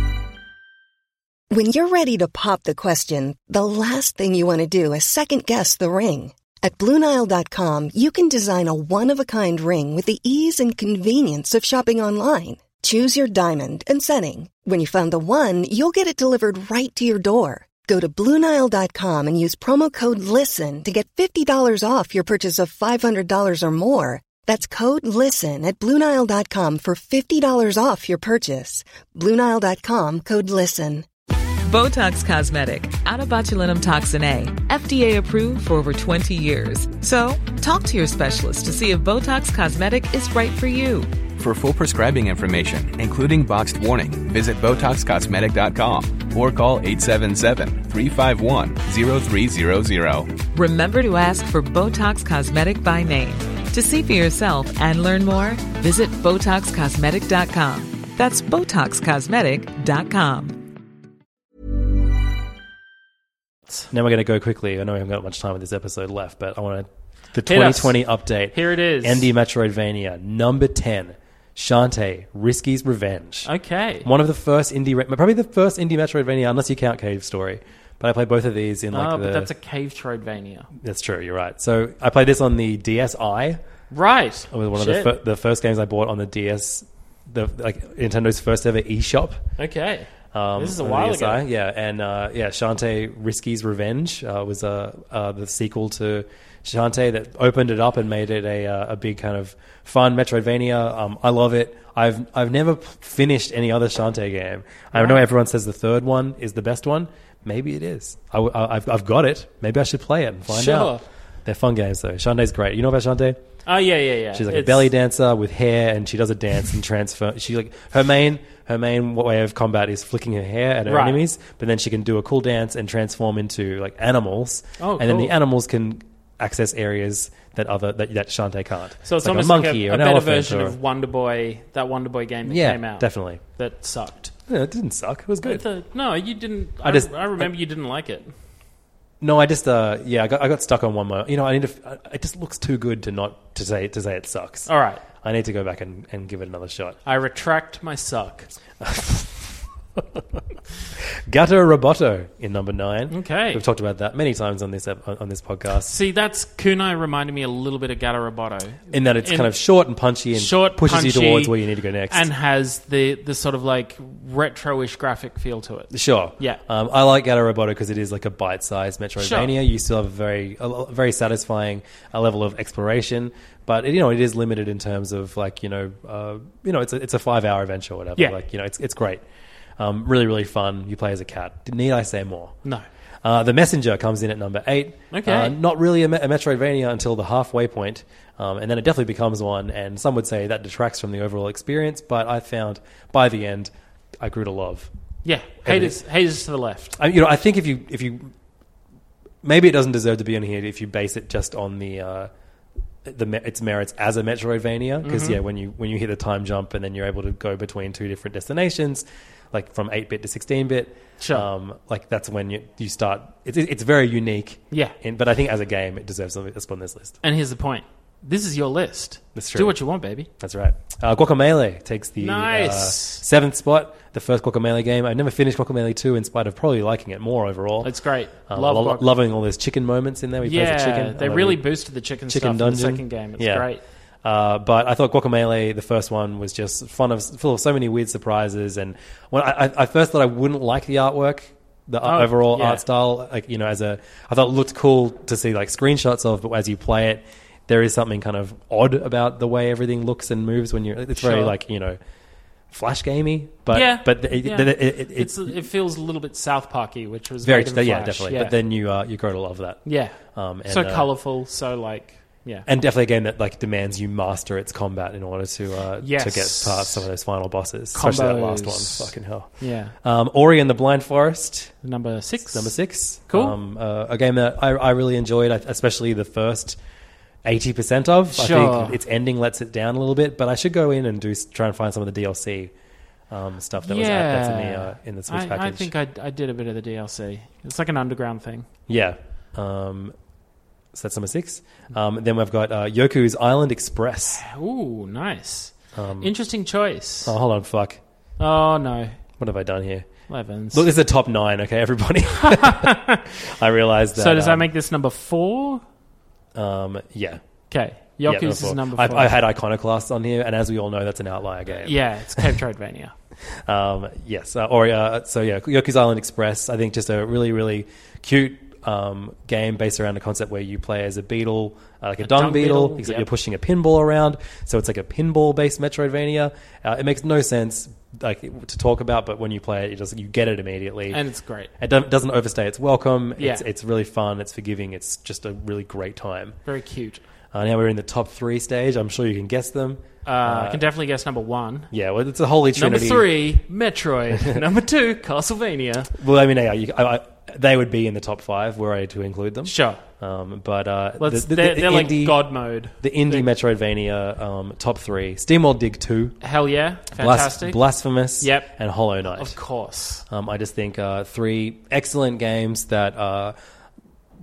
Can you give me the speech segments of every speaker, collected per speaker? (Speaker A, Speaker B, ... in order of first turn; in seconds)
Speaker A: 1.5-31.1
Speaker B: 31.7-41.1, 50.5-60.6
Speaker C: 41.4-50.4
Speaker D: 63.9-73.5, 74.0-79.5, 80.8-83.6, 84.5-89.4, 90.3-113.4, 114.3-130.8, 132.4-133.4, 134.5-135.6, 136.8-137.5, 139.2-144.7, 145.2-147.0, 148.8-150.4, 151.0-155.9, 158.9-162.3, 165.9-179.2, 179.8-182.6, 183.2-194.9, 195.6-196.0, 197.0-198.3, 199.4-202.3, 203.0-217.2, 219.3-219.8, 220.4-227.9, 228.5-231.7, 232.3-233.7, 234.2-252.0, 252.7-255.6, 257.4-261.1, 262.6-271.8, 272.5-276.8, 277.4-282.7, 283.3-285.9, 288.9-290.1, 290.9-294.4, 295.9-296.4, 297.2-298.0, 299.4-300.1, 300.7-304.7, 306.6-307.4, 308.2-312.6, 313.5-331.2, 331.8-336.6, 337.5-340.8, 341.9-343.3, 346.1-356.4, 357.1-359.6, 360.3-363.6
Speaker E: 67.5-68.0, 68.5-69.3, 73.5-74.1, 78.9-80.7, 83.9-85.1, 89.6-91.4, 104.9-105.2, 110.5-111.0, 113.7-114.9, 120.9-121.2, 124.8-125.3, 129.0-134.3, 135.4-138.3, 144.7-145.0, 147.1-148.5, 153.1-153.6, 155.9-159.5, 160.3-161.6, 162.1-166.6, 169.2-169.5, 185.1-185.6, 195.2-197.0, 205.0-205.4, 211.2-211.5, 217.2-220.3, 222.2-223.2, 227.8-229.1, 230.4-233.8, 242.0-242.8, 251.2-251.5, 253.7-258.6, 259.9-262.7, 266.0-267.1, 267.9-269.9, 271.8-272.8, 273.3-273.6, 278.3-279.0, 283.8-288.7, 294.4-297.4, 298.4-299.2, 300.3-300.9, 302.4-303.3, 304.1-305.8, 307.7-309.4, 311.8-313.1, 322.2-323.3, 331.1-331.7, 333.4-333.6, 336.6-337.2, 340.2-341.9, 342.8-346.1, 349.6-350.0, 351.2-353.5, 356.4-357.8, 358.4-358.7, 359.3-360.2